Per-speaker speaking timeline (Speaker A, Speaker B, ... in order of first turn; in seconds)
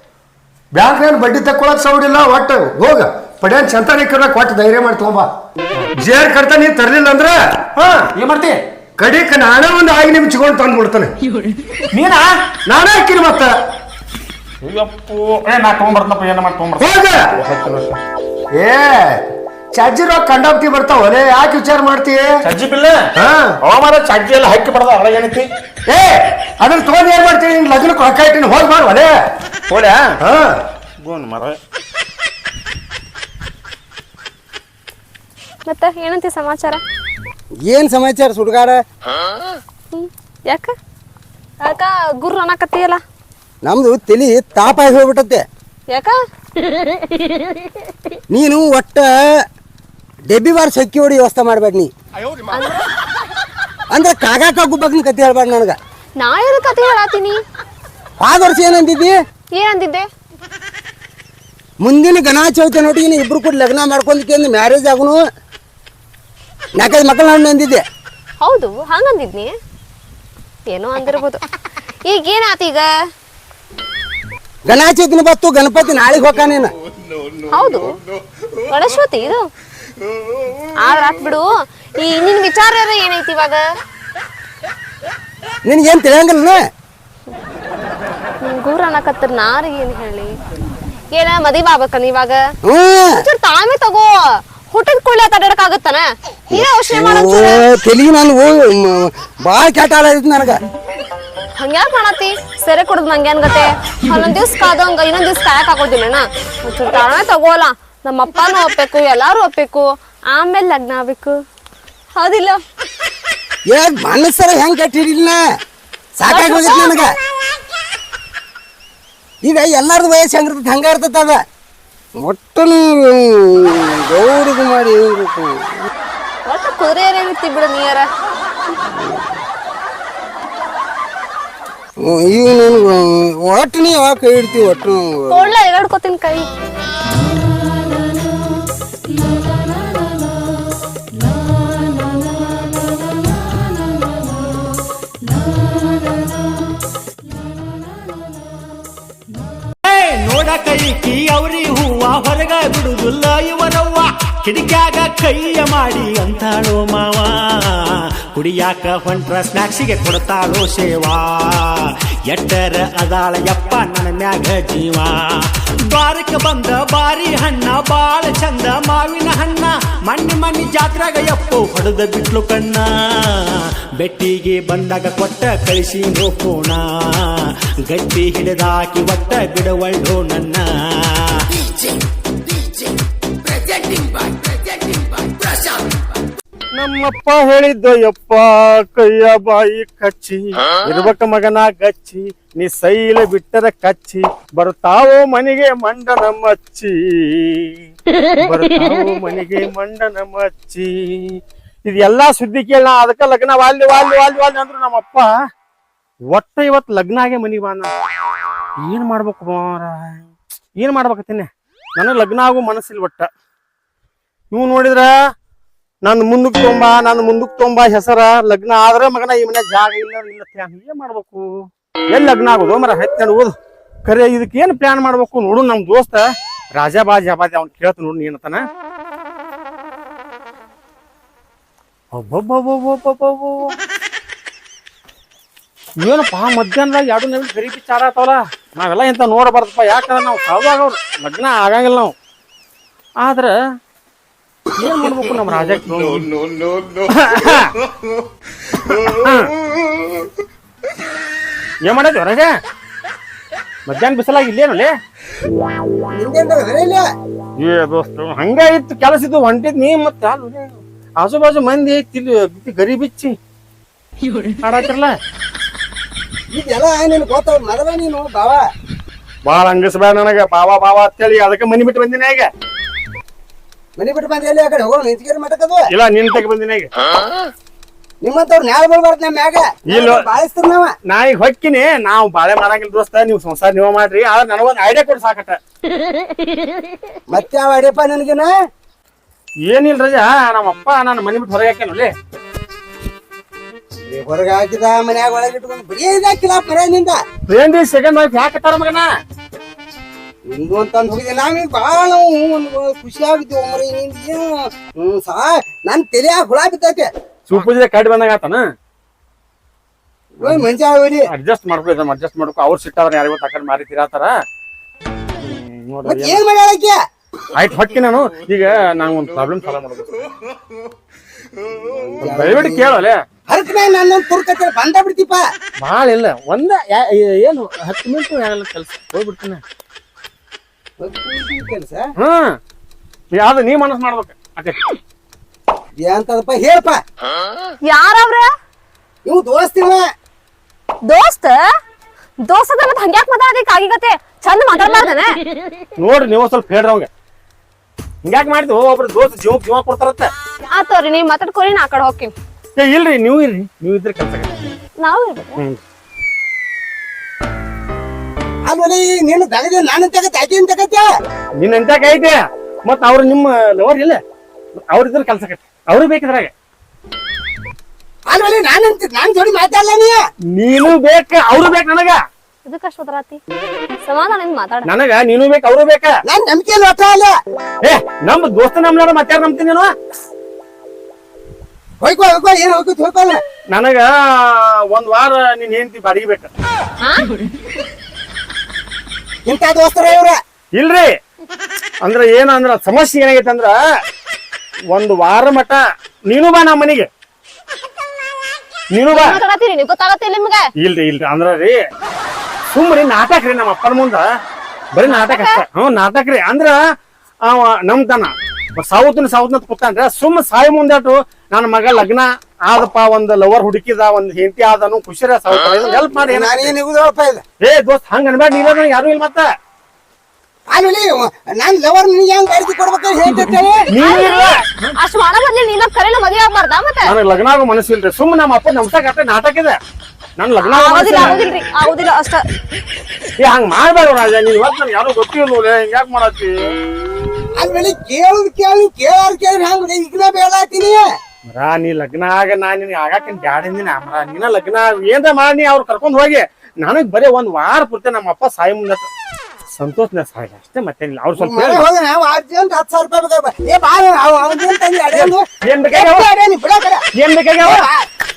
Speaker A: 0.7-5.3, 6.0-7.4, 9.0-11.1, 12.7-13.5, 16.8-17.3, 18.6-19.2, 19.7-22.3, 23.2-23.6, 25.9-29.1, 30.2-30.6
Speaker B: 7.8-8.6, 11.9-12.3, 14.6-18.0, 22.4-23.1, 23.6-25.5, 29.7-30.1, 31.0-31.6, 186.8-197.8, 198.4-205.3, 206.3-207.9, 208.8-213.3, 214.5-215.1, 216.1-221.5, 222.1-228.6, 232.1-233.8, 236.0-242.1, 243.2-243.6, 244.8-246.3, 247.1-247.7, 248.8-249.5, 251.9-252.5, 253.9-254.9, 257.6-263.4, 264.6-265.1, 269.4-272.5, 275.9-276.9, 279.9-280.2, 281.1-285.6, 289.7-292.1, 297.5-299.1, 307.5-308.6, 311.3-314.4, 315.4-316.4, 317.6-320.2, 322.2-323.2, 325.8-329.6, 332.2-332.5, 333.4-334.9, 346.0-347.1, 348.2-350.3, 352.8-354.5, 361.6-364.2, 364.9-366.5, 370.5-372.2, 374.9-376.2, 377.8-379.9, 383.7-386.5, 390.8-391.1, 392.0-393.8, 394.9-397.1, 398.9-399.4, 400.8-401.8, 402.7-404.3, 404.9-406.8, 407.5-416.7, 417.6-419.5, 423.9-424.9, 427.1-429.8, 430.4-431.5, 433.4-436.6, 441.5-449.1, 449.8-451.9, 455.1-456.3, 457.1-457.8
Speaker C: 35.7-36.8, 39.9-40.7, 41.6-43.0, 52.5-52.9, 56.2-57.4, 59.6-60.1, 68.4-69.5, 70.7-71.4, 72.1-72.9, 77.5-78.0, 78.7-79.5, 80.8-81.5, 82.0-83.6, 88.5-90.3, 91.1-92.4, 93.2-94.2, 94.7-97.7, 101.6-111.4, 112.2-112.6, 116.3-117.0, 126.5-128.1, 135.3-136.5, 337.9-338.5, 341.1-341.6, 342.5-345.4, 350.7-352.3, 355.0-355.6, 372.6-373.4, 374.0-374.9, 387.0-387.3, 399.1-400.6, 405.0-405.6, 424.0-427.1, 430.6-432.4
Speaker D: 37.7-38.8, 43.6-45.4, 48.3-49.1, 50.3-51.9, 53.9-55.8, 58.2-59.1, 61.8-65.2, 66.8-67.8, 74.7-76.7, 85.7-86.6, 92.7-93.2, 96.5-100.6, 113.7-115.4, 116.2-117.1, 119.4-121.4, 122.2-125.7, 129.0-129.3, 132.0-135.5, 256.1-257.1, 266.5-268.6, 274.0-275.9, 278.2-280.9, 287.3-288.5, 294.1-297.2, 300.5-307.1, 310.4-311.3, 316.1-317.0, 321.8-322.9, 323.5-325.4, 331.0-332.1, 336.0-337.0, 339.3-340.1, 358.7-361.1, 368.3-370.2, 376.3-377.4, 382.0-383.4, 389.5-390.4, 416.1-417.4, 420.7-423.9, 437.6-441.0, 451.4-457.0, 457.6-458.1
Speaker E: 149.8-181.5